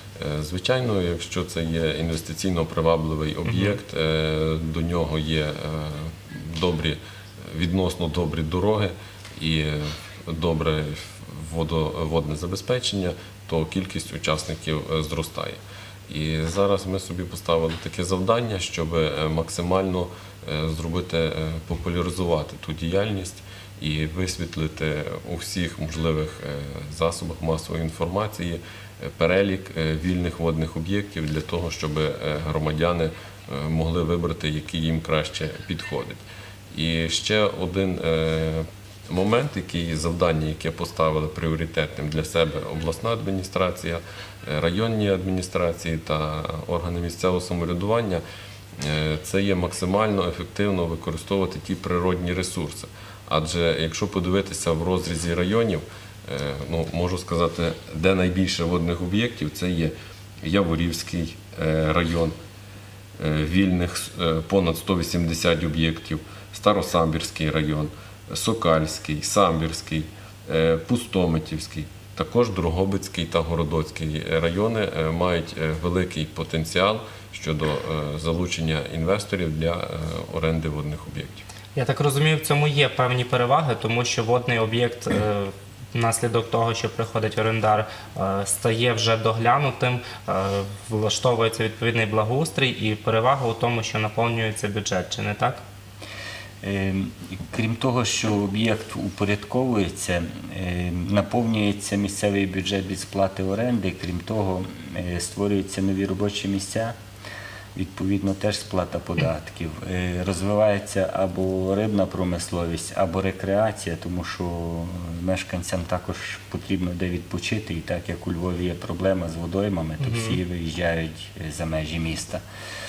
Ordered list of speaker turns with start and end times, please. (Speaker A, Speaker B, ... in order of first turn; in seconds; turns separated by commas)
Speaker A: 0.2-48.2, Speaker B: 3.5-3.8, Speaker A: 48.8-62.4, Speaker A: 63.2-81.4, Speaker B: 81.7-95.6, Speaker C: 96.6-106.9, Speaker C: 107.7-122.4, Speaker B: 120.0-120.4